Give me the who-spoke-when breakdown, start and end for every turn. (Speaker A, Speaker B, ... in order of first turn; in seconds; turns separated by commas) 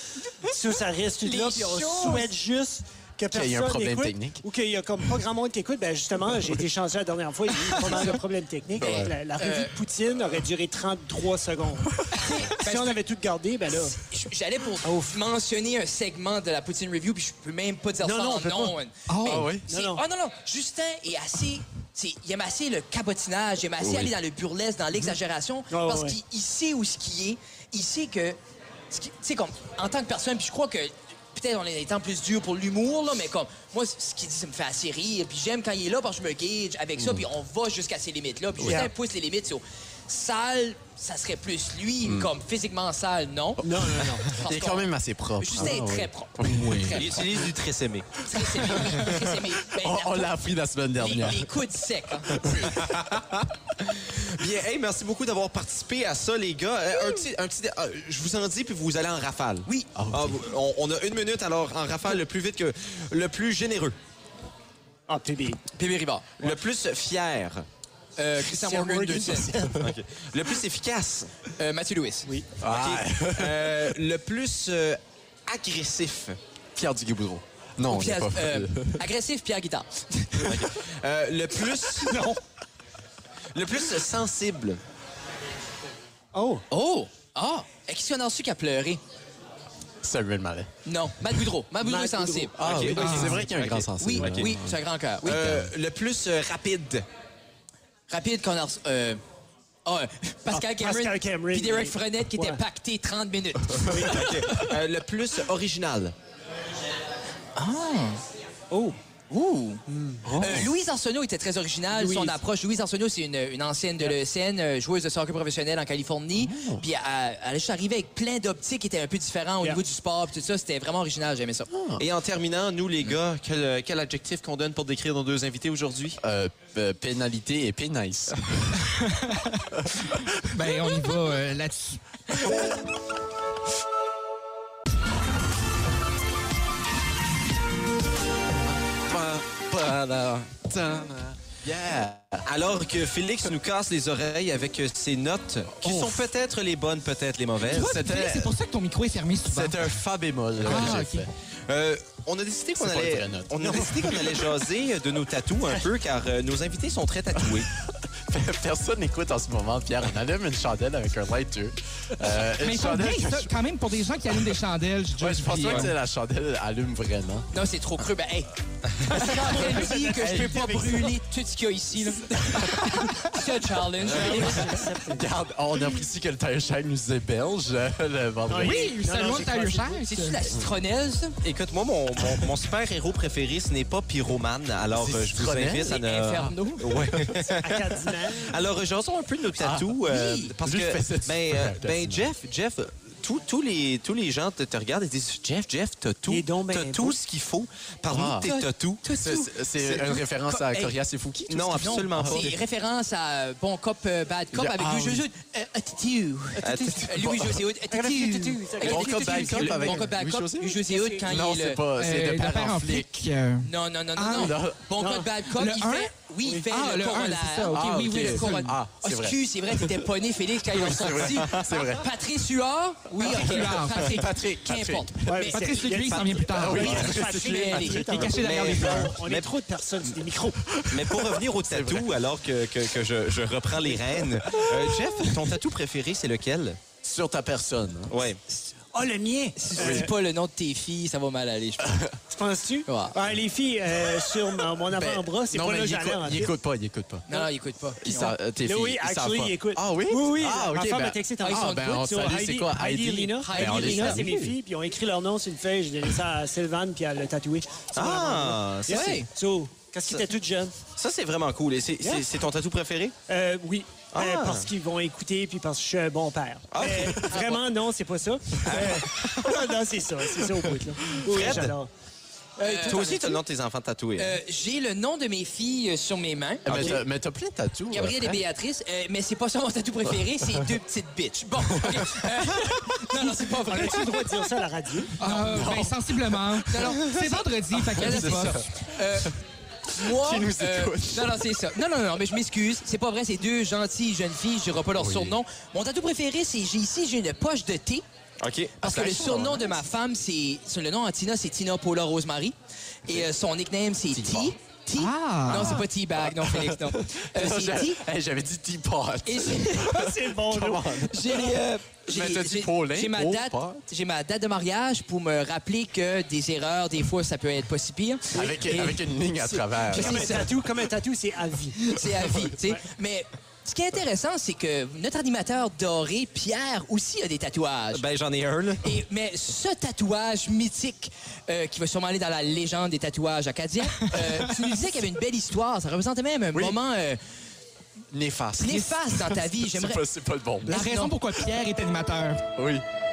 Speaker A: 0.4-14.0, Speaker B: 1.2-2.3, Speaker C: 3.3-4.4, Speaker C: 8.8-9.1, Speaker B: 8.8-9.8, Speaker B: 12.2-13.0, Speaker B: 13.9-28.4, Speaker A: 14.8-15.2, Speaker A: 18.0-18.8, Speaker D: 19.1-19.5, Speaker C: 19.3-19.7, Speaker A: 19.7-20.0, Speaker C: 23.8-24.1, Speaker A: 25.7-26.2, Speaker B: 28.9-47.3, Speaker C: 37.0-37.3, Speaker A: 38.6-38.9, Speaker C: 42.0-42.3, Speaker A: 43.6-44.3, Speaker C: 44.1-47.3, Speaker E: 47.0-48.2, Speaker B: 48.2-50.3, Speaker C: 48.6-51.5, Speaker B: 51.0-52.5, Speaker C: 52.3-53.1, Speaker E: 52.6-64.0, Speaker C: 60.0-60.4, Speaker A: 65.1-65.6, Speaker B: 65.7-66.4, Speaker E: 66.4-67.7, Speaker B: 68.2-69.5, Speaker A: 68.4-69.9, Speaker E: 69.8-71.3, Speaker B: 71.6-72.3, Speaker A: 72.2-72.5, Speaker C: 72.6-74.0, Speaker E: 72.6-76.4, Speaker C: 76.8-79.1, Speaker B: 77.9-80.6, Speaker E: 80.4-82.2, Speaker A: 82.0-82.4, Speaker E: 83.5-84.8, Speaker A: 86.3-86.6, Speaker B: 86.7-89.0, Speaker C: 90.0-90.7, Speaker B: 90.8-92.6, Speaker A: 91.8-93.4, Speaker C: 92.6-95.7, Speaker E: 92.6-94.5, Speaker D: 93.0-93.4, Speaker B: 94.0-95.6, Speaker E: 95.2-97.1, Speaker B: 98.1-99.2, Speaker B: 99.8-104.7, Speaker A: 100.5-102.6, Speaker A: 103.9-104.2, Speaker E: 104.0-106.1, Speaker B: 107.6-108.2, Speaker A: 108.7-109.0, Speaker B: 109.3-121.7, Speaker A: 109.9-110.4, Speaker C: 110.3-110.7, Speaker A: 111.9-112.4, Speaker C: 116.3-116.8, Speaker C: 121.7-122.0, Speaker E: 122.0-126.2, Speaker C: 126.2-128.8, Speaker D: 128.8-129.7, Speaker C: 129.8-130.1, Speaker D: 130.4-132.5, Speaker C: 139.1-142.4, Speaker E: 142.4-147.9, Speaker C: 145.8-146.2, Speaker D: 147.7-149.8, Speaker C: 147.7-148.5, Speaker C: 149.4-151.3, Speaker D: 150.6-151.3, Speaker E: 151.7-157.7, Speaker C: 152.8-154.5, Speaker C: 157.4-163.5, Speaker D: 162.5-165.9, Speaker C: 165.2-167.5, Speaker B: 167.5-174.8, Speaker A: 169.1-171.2, Speaker C: 170.2-170.8, Speaker A: 174.1-175.3, Speaker C: 174.1-178.9, Speaker A: 178.5-180.0, Speaker D: 178.6-180.4, Speaker B: 179.9-181.4, Speaker E: 181.4-199.0, Speaker C: 184.9-186.0, Speaker B: 185.8-187.1, Speaker C: 187.0-187.4, Speaker A: 187.5-188.5, Speaker C: 189.6-190.0, Speaker B: 190.1-190.6, Speaker C: 190.6-192.3, Speaker A: 196.3-197.2, Speaker C: 198.1-198.5, Speaker B: 198.4-200.9, Speaker C: 199.2-202.5, Speaker E: 201.5-202.6, Speaker B: 201.7-211.8, Speaker C: 204.5-205.3, Speaker A: 206.6-207.1, Speaker E: 206.6-207.3, Speaker A: 207.9-210.1, Speaker C: 208.8-213.2, Speaker A: 210.9-211.2, Speaker D: 212.0-214.6, Speaker B: 213.6-225.9, Speaker C: 214.3-214.9, Speaker A: 215.0-215.3, Speaker D: 215.4-216.1, Speaker D: 216.7-218.8, Speaker C: 217.7-220.1, Speaker C: 220.7-222.1, Speaker C: 223.2-225.3, Speaker D: 223.2-224.3, Speaker A: 225.3-230.8, Speaker D: 225.5-227.2, Speaker C: 226.5-228.2, Speaker B: 226.9-228.3, Speaker D: 227.9-229.2, Speaker E: 228.2-229.5, Speaker C: 230.7-232.2, Speaker E: 230.9-236.8, Speaker C: 234.2-235.3, Speaker C: 237.0-238.1, Speaker E: 238.1-238.4, Speaker A: 238.9-240.1, Speaker B: 239.6-242.0, Speaker C: 239.8-240.1, Speaker C: 241.8-242.2, Speaker A: 242.3-246.5, Speaker B: 242.9-243.2, Speaker C: 244.9-247.4, Speaker B: 247.3-248.4, Speaker C: 248.0-254.5, Speaker A: 248.6-260.8, Speaker B: 251.4-252.2, Speaker B: 253.4-254.5, Speaker E: 257.9-259.2, Speaker B: 258.9-259.3, Speaker E: 260.9-263.2, Speaker A: 263.3-271.9, Speaker E: 264.1-264.7, Speaker E: 266.7-267.6, Speaker E: 268.6-269.6, Speaker E: 271.1-271.7, Speaker B: 272.6-273.4, Speaker A: 272.6-273.3, Speaker E: 272.7-274.4, Speaker B: 274.2-277.0, Speaker C: 276.6-278.4, Speaker E: 276.7-277.0, Speaker B: 277.9-284.3, Speaker C: 281.8-282.1, Speaker A: 283.1-285.1, Speaker B: 285.2-285.8, Speaker D: 285.2-288.6, Speaker C: 285.3-286.9, Speaker B: 286.7-289.4, Speaker C: 287.9-289.3, Speaker B: 289.9-298.0, Speaker C: 290.0-291.6, Speaker C: 294.9-295.4, Speaker E: 298.4-299.4, Speaker B: 298.8-308.0, Speaker C: 299.0-299.5, Speaker C: 304.1-304.5, Speaker D: 305.0-305.9, Speaker C: 305.5-311.5, Speaker B: 309.3-310.1, Speaker A: 309.9-311.1, Speaker B: 311.1-320.7, Speaker C: 312.1-313.8, Speaker C: 318.3-320.4, Speaker A: 319.9-321.9, Speaker B: 321.8-328.0, Speaker E: 327.9-329.0, Speaker B: 328.8-337.2, Speaker C: 336.5-336.8, Speaker C: 338.1-340.8, Speaker B: 338.6-340.0, Speaker B: 340.6-341.1, Speaker D: 340.7-342.4, Speaker C: 342.6-342.8